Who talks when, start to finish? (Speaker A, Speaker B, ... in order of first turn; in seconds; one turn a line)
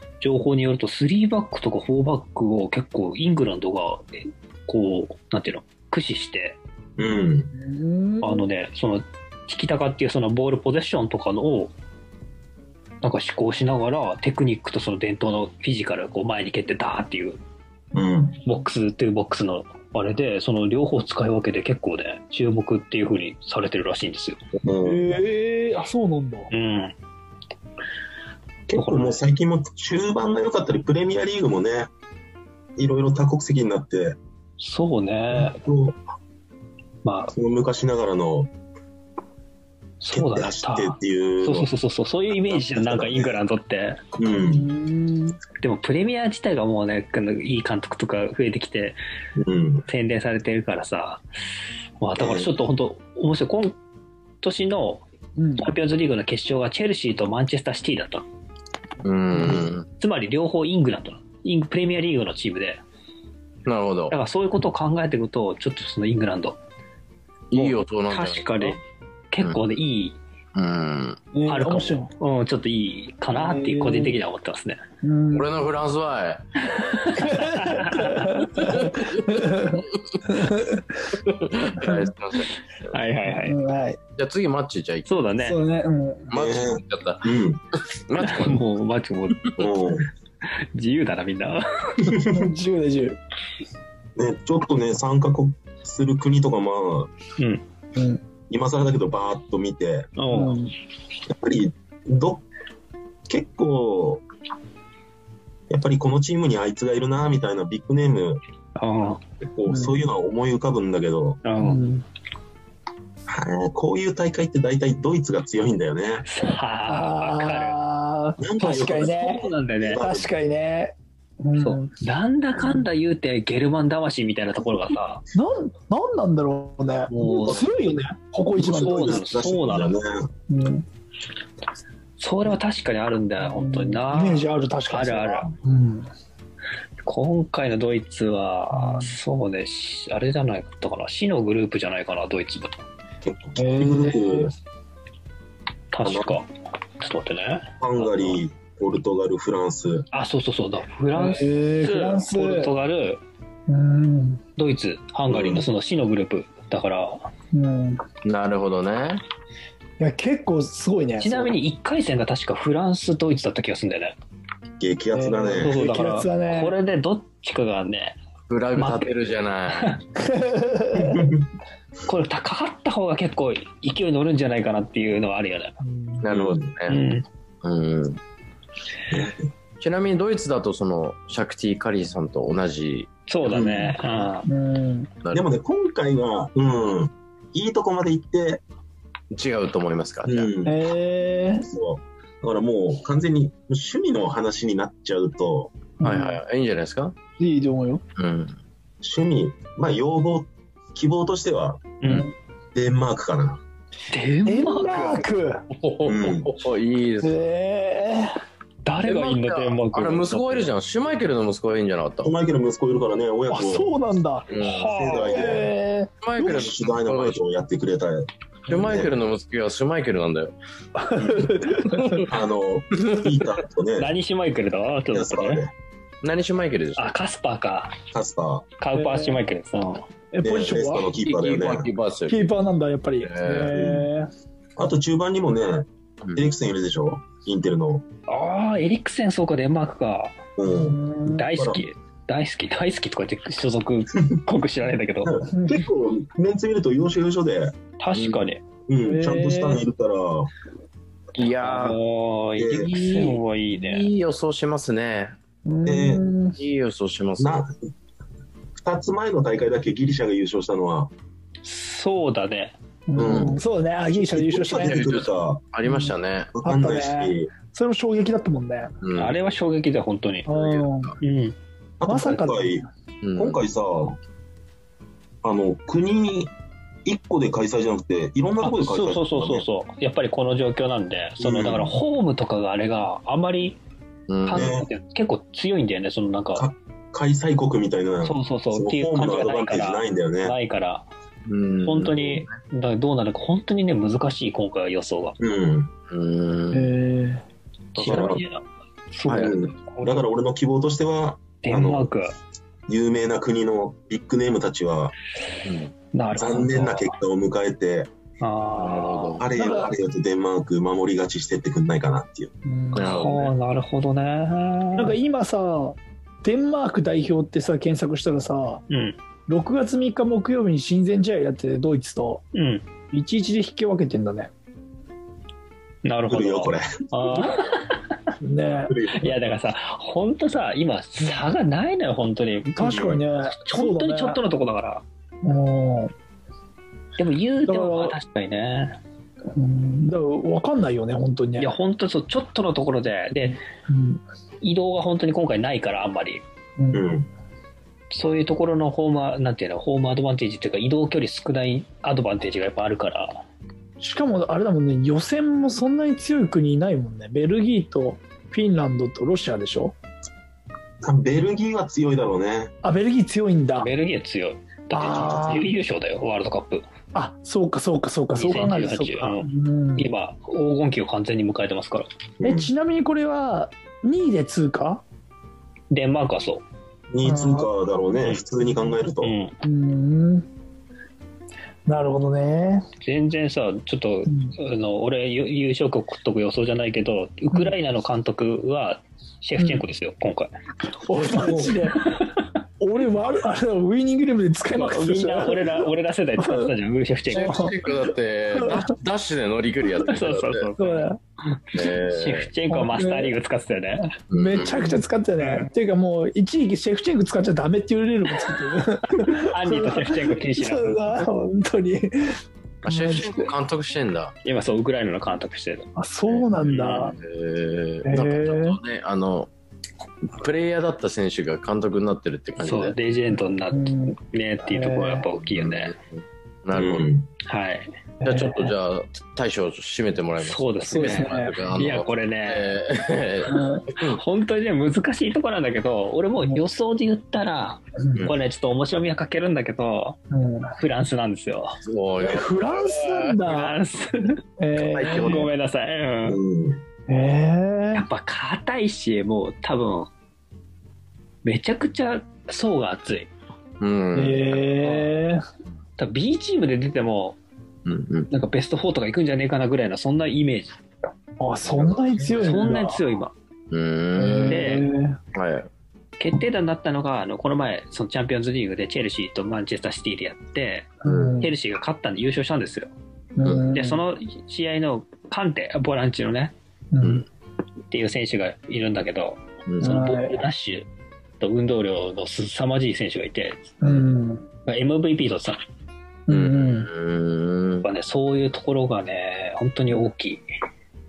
Speaker A: 0.2-6.6
Speaker B: 7.0-7.5
Speaker C: 7.5-8.5
Speaker A: 8.2-11.7
Speaker A: 13.0-17.4
Speaker B: 17.9-18.4
Speaker A: 18.4-24.4
Speaker B: 24.6-25.2
Speaker C: 24.8-26.5
Speaker A: 26.5-26.9
Speaker B: 28.7-31.9
Speaker A: 28.7-29.2
Speaker B: 32.8-34.2
Speaker A: 34.6-35.6
Speaker B: 35.3-36.0
Speaker A: 37.0-37.3
Speaker B: 37.3-38.5
Speaker A: 40.0-44.0
Speaker B: 40.1-41.7
Speaker B: 42.5-43.4
Speaker B: 44.1-44.7
Speaker C: 44.3-45.4
Speaker A: 45.6-49.0
Speaker B: 49.4-49.8
Speaker A: 49.9-51.2
Speaker A: 52.0-53.8
Speaker D: 52.2-52.5
Speaker A: 54.4-55.0
Speaker C: 55.4-55.7
Speaker A: 55.6-58.2
Speaker D: 59.0-59.9
Speaker A: 60.0-62.8
Speaker D: 63.6-64.1
Speaker A: 64.1-66.6
Speaker D: 67.5-68.8
Speaker A: 67.5-68.8
Speaker A: 69.3-70.2
Speaker D: 70.5-71.2
Speaker C: 71.3-72.1
Speaker A: 71.5-74.8
Speaker C: 73.3-74.2
Speaker C: 75.0-75.6
Speaker D: 75.3-77.3
Speaker A: 77.0-78.4
Speaker C: 77.0-82.1
Speaker D: 78.5-80.4
Speaker D: 81.2-82.9
Speaker A: 82.9-83.6
Speaker C: 83.2-84.0
Speaker D: 84.2-85.2
Speaker A: 85.1-85.6
Speaker C: 85.4-86.3
Speaker D: 86.3-88.6
Speaker B: 86.3-87.6
Speaker A: 88.2-89.6
Speaker B: 89.6-90.1
Speaker A: 90.4-92.2
Speaker B: 92.0-92.4
Speaker C: 92.2-93.2
Speaker B: 94.2-97.1
Speaker A: 97.4-97.6
Speaker C: 97.9-98.2
Speaker B: 98.5-100.1
Speaker A: 100.2-100.6
Speaker C: 100.3-100.7
Speaker B: 101.3-102.4
Speaker B: 103.3-104.2
Speaker B: 105.7-108.4
Speaker A: 108.8-109.2
Speaker B: 109.4-111.4
Speaker C: 109.7-110.0
Speaker A: 111.4-111.9
Speaker C: 111.6-112.0
Speaker B: 113.3-116.2
Speaker A: 116.2-117.8
Speaker C: 116.9-119.5
Speaker B: 118.4-120.3
Speaker A: 118.8-120.0
Speaker C: 120.0-121.9
Speaker A: 121.6-125.2
Speaker C: 125.3-129.2
Speaker B: 127.1-127.7
Speaker B: 128.6-130.3
Speaker A: 128.7-129.9
Speaker C: 130.5-130.8
Speaker A: 132.2-135.5
Speaker C: 133.4-136.1
Speaker A: 137.0-142.8
Speaker C: 138.7-139.1
Speaker B: 143.2-144.5
Speaker C: 143.6-144.5
Speaker A: 145.9-146.5
Speaker B: 146.0-146.3
Speaker A: 147.0-148.3
Speaker B: 147.8-150.1
Speaker A: 150.1-153.2
Speaker C: 151.1-152.7
Speaker C: 153.7-154.4
Speaker A: 154.6-157.3
Speaker B: 155.3-155.7
Speaker C: 157.5-158.0
Speaker D: 158.2-159.2
Speaker C: 160.0-161.5
Speaker A: 161.2-164.2
Speaker B: 164.8-165.8
Speaker C: 165.1-166.7
Speaker A: 165.6-168.2
Speaker D: 168.5-170.0
Speaker A: 168.8-169.1
Speaker A: 169.7-170.0
Speaker C: 170.2-171.2
Speaker B: 170.9-171.4
Speaker A: 172.1-175.8
Speaker C: 175.8-176.2
Speaker D: 176.2-177.0
Speaker B: 176.3-176.7
Speaker A: 176.5-177.2
Speaker D: 177.6-178.2
Speaker B: 179.1-179.4
Speaker D: 179.8-183.1
Speaker A: 183.3-184.5
Speaker B: 183.4-184.2
Speaker C: 184.4-185.1
Speaker D: 185.2-185.5
Speaker B: 185.3-188.6
Speaker D: 189.3-190.5
Speaker B: 190.2-190.9
Speaker C: 190.6-191.7
Speaker B: 191.7-195.7
Speaker C: 196.0-196.4
Speaker D: 196.0-197.1
Speaker C: 197.4-198.0
Speaker D: 198.2-198.5
Speaker B: 199.0-201.9
Speaker A: 202.0-202.3
Speaker C: 202.1-202.3
Speaker B: 202.7-203.6
Speaker A: 204.1-205.2
Speaker C: 204.4-205.7
Speaker D: 205.7-207.4
Speaker B: 206.0-206.5
Speaker C: 207.2-208.3
Speaker A: 208.8-210.7
Speaker D: 209.0-212.3
Speaker B: 212.2-213.9
Speaker C: 213.5-214.5
Speaker D: 214.5-214.9
Speaker B: 214.6-215.7
Speaker A: 214.6-215.5
Speaker C: 215.3-216.1
Speaker D: 216.2-217.4
Speaker B: 216.3-219.1
Speaker D: 218.7-220.5
Speaker C: 221.1-222.2
Speaker B: 221.2-221.5
Speaker B: 222.1-224.1
Speaker A: 224.0-225.6
Speaker B: 225.1-225.7
Speaker D: 226.2-227.1
Speaker A: 226.9-227.9
Speaker B: 228.1-228.7
Speaker A: 228.8-230.1
Speaker C: 228.9-229.4
Speaker C: 230.3-231.1
Speaker B: 230.4-231.9
Speaker D: 231.2-232.5
Speaker C: 232.3-234.3
Speaker D: 233.2-233.8
Speaker B: 233.7-234.1
Speaker B: 234.8-238.0
Speaker A: 238.3-240.3
Speaker B: 240.6-241.8
Speaker C: 240.7-241.4
Speaker A: 241.2-245.4
Speaker B: 245.2-247.8
Speaker A: 248.0-248.6
Speaker D: 248.1-248.4
Speaker B: 248.9-250.5
Speaker C: 249.0-249.8
Speaker D: 251.3-252.0
Speaker A: 251.6-254.1
Speaker B: 252.6-253.0
Speaker D: 252.9-255.3
Speaker C: 255.7-256.6
Speaker B: 255.8-256.2
Speaker D: 256.6-257.6
Speaker B: 257.4-257.7
Speaker B: 258.7-261.1
Speaker A: 261.6-262.7
Speaker C: 263.1-265.0
Speaker B: 263.1-263.6
Speaker D: 263.2-263.6
Speaker B: 264.1-265.6
Speaker D: 264.8-266.5
Speaker C: 265.8-266.1
Speaker B: 266.5-267.5
Speaker C: 266.6-268.9
Speaker D: 269.0-269.4
Speaker A: 269.1-270.5
Speaker C: 270.5-271.1
Speaker D: 270.8-271.1
Speaker A: 271.2-271.5
Speaker B: 272.0-274.2
Speaker C: 272.1-272.8
Speaker D: 273.2-273.6
Speaker B: 275.4-276.5
Speaker B: 277.0-279.6
Speaker A: 278.6-283.8
Speaker B: 281.4-281.9
Speaker D: 284.3-284.8
Speaker A: 284.4-286.7
Speaker B: 284.5-284.9
Speaker B: 286.5-290.5
Speaker A: 288.2-291.1
Speaker D: 291.4-292.6
Speaker A: 291.8-295.4
Speaker B: 295.4-295.9
Speaker D: 296.1-296.9
Speaker C: 296.7-297.4
Speaker A: 297.9-300.2
Speaker B: 298.0-298.4
Speaker D: 298.0-298.4
Speaker D: 299.3-299.5
Speaker B: 299.3-302.1
Speaker A: 301.6-302.3
Speaker B: 302.9-305.1
Speaker D: 305.6-305.9
Speaker A: 306.1-307.1
Speaker B: 306.4-308.1
Speaker A: 308.4-309.4
Speaker D: 308.8-309.5
Speaker B: 309.4-312.5
Speaker C: 309.6-309.9
Speaker C: 312.6-313.2
Speaker D: 312.9-313.5
Speaker A: 313.0-315.2
Speaker C: 314.9-318.8
Speaker A: 318.9-319.2
Speaker C: 319.5-322.4
Speaker A: 322.5-322.8
Speaker C: 323.1-324.5
Speaker A: 326.0-328.1
Speaker B: 326.3-327.6
Speaker C: 328.4-328.9
Speaker B: 328.7-329.4
Speaker A: 329.1-333.0
Speaker C: 332.8-334.4
Speaker B: 332.8-333.2
Speaker A: 333.6-335.0
Speaker C: 335.4-336.1
Speaker A: 337.2-339.0
Speaker C: 337.7-338.1
Speaker C: 339.5-341.7
Speaker A: 341.6-343.6
Speaker C: 343.9-344.2
Speaker A: 344.6-346.4
Speaker C: 346.8-347.1
Speaker B: 346.9-347.3
Speaker A: 348.1-353.4
Speaker C: 354.0-359.9
Speaker B: 361.0-362.7
Speaker C: 362.8-363.9
Speaker A: 363.8-366.8
Speaker C: 364.9-365.7
Speaker C: 367.1-370.1
Speaker A: 368.3-372.1
Speaker B: 372.4-372.7
Speaker C: 372.4-375.0
Speaker A: 375.9-376.6
Speaker B: 377.1-379.3
Speaker C: 377.2-377.7
Speaker A: 378.1-378.4
Speaker A: 379.2-379.6
Speaker C: 379.6-380.5
Speaker C: 381.9-382.9
Speaker A: 383.0-390.5
Speaker C: 384.3-384.5
Speaker C: 391.0-392.2
Speaker B: 391.4-391.8
Speaker C: 392.8-395.8
Speaker A: 394.7-397.7
Speaker C: 396.4-396.7
Speaker D: 397.3-400.7
Speaker C: 397.3-397.7
Speaker C: 398.6-398.9
Speaker A: 400.1-404.1
Speaker C: 400.8-401.2
Speaker D: 401.7-402.5
Speaker C: 402.7-403.3
Speaker D: 404.3-405.0
Speaker C: 404.3-413.5
Speaker A: 405.4-405.7
Speaker A: 409.4-411.2
Speaker D: 412.8-414.3
Speaker A: 414.4-415.9
Speaker C: 415.9-417.2
Speaker D: 416.3-419.5
Speaker A: 416.7-417.1
Speaker C: 418.0-418.8
Speaker D: 420.2-422.9
Speaker A: 422.6-425.9
Speaker C: 423.7-425.3
Speaker D: 425.4-427.1
Speaker B: 426.7-427.3
Speaker A: 427.4-427.9
Speaker C: 428.2-428.7
Speaker D: 428.2-434.2
Speaker A: 430.4-432.7
Speaker C: 430.9-431.6
Speaker C: 433.5-433.9
Speaker A: 434.0-440.2
Speaker C: 440.3-440.7
Speaker A: 440.7-441.8
Speaker D: 441.8-443.3
Speaker C: 442.2-443.8
Speaker A: 443.4-444.4
Speaker C: 444.6-445.4
Speaker D: 444.9-445.5
Speaker A: 445.1-446.4
Speaker B: 446.2-446.8
Speaker C: 447.1-448.0
Speaker A: 447.9-450.1
Speaker A: 451.4-453.3
Speaker D: 453.8-454.9
Speaker C: 454.1-455.4
Speaker A: 456.0-457.4
Speaker D: 457.8-458.3
Speaker A: 458.3-460.7
Speaker C: 461.4-463.0
Speaker D: 461.6-462.6
Speaker A: 462.3-463.3
Speaker D: 463.7-464.8
Speaker C: 464.1-465.2
Speaker A: 464.4-464.9
Speaker D: 465.3-465.7
Speaker A: 466.2-472.9
Speaker C: 471.0-471.5
Speaker D: 471.0-471.3
Speaker C: 473.4-474.0
Speaker D: 473.4-473.7
Speaker A: 473.7-476.5
Speaker C: 476.9-477.2
Speaker D: 477.0-477.2
Speaker A: 477.9-480.9
Speaker D: 479.6-480.1
Speaker C: 479.8-480.4
Speaker A: 481.4-483.7
Speaker C: 483.8-484.5
Speaker A: 484.6-485.6
Speaker C: 486.3-486.9
Speaker D: 486.3-487.9
Speaker A: 487.8-490.4